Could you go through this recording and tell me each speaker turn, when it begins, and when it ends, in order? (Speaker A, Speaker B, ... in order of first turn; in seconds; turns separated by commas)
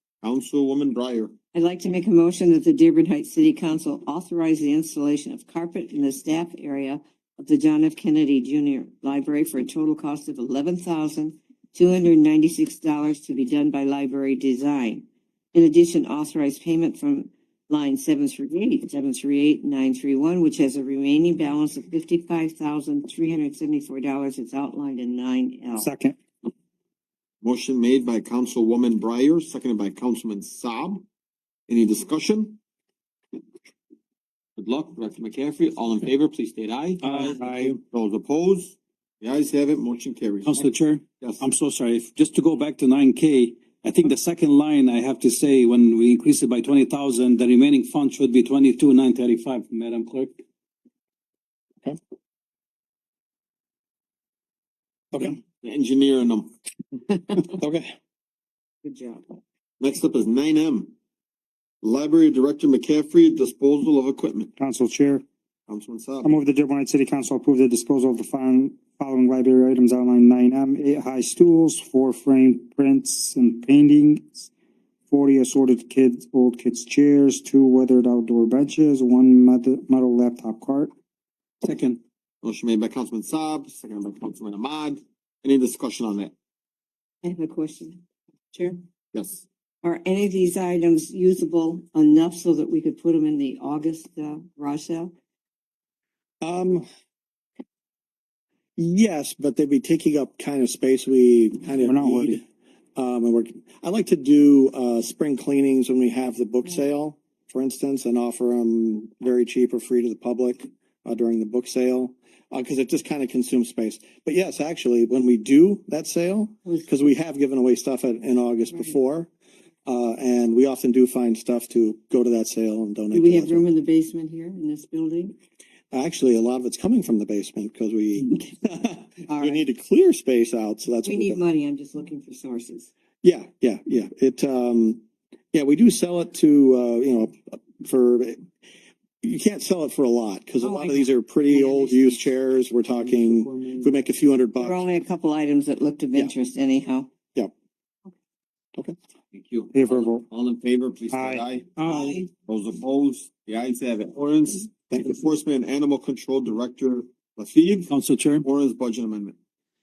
Speaker A: 0.2-1.3, Speaker B: 1.5-25.9, Speaker C: 25.8-26.2, Speaker A: 27.4-31.1, Speaker A: 31.7-32.6, Speaker A: 34.6-40.6, Speaker D: 37.0-37.7, Speaker D: 40.4-50.4, Speaker A: 41.2-41.5, Speaker A: 55.6-56.5, Speaker E: 57.6-58.0, Speaker B: 58.8-59.3, Speaker A: 59.8-61.0, Speaker A: 61.8-64.5, Speaker C: 64.6-65.2, Speaker A: 65.7-66.3, Speaker C: 66.2-74.5, Speaker C: 75.1-80.9, Speaker D: 81.6-82.0, Speaker A: 82.4-86.3, Speaker B: 87.2-88.8, Speaker A: 89.1-89.5, Speaker B: 89.8-95.1, Speaker E: 96.4-96.9, Speaker E: 98.8-102.4, Speaker C: 101.8-102.4, Speaker E: 103.0-119.3, Speaker B: 118.7-119.0, Speaker E: 119.9-123.7, Speaker B: 123.1-125.4, Speaker E: 125.9-131.4, Speaker B: 129.3-129.7, Speaker B: 131.0-132.9, Speaker E: 133.2-135.0, Speaker E: 135.5-138.5, Speaker E: 139.2-144.9, Speaker B: 140.6-142.3, Speaker B: 144.6-147.1, Speaker A: 149.3-151.8, Speaker C: 149.7-150.3, Speaker C: 151.1-152.3, Speaker B: 151.8-152.2, Speaker A: 152.4-159.4, Speaker E: 154.9-155.2, Speaker D: 157.9-158.5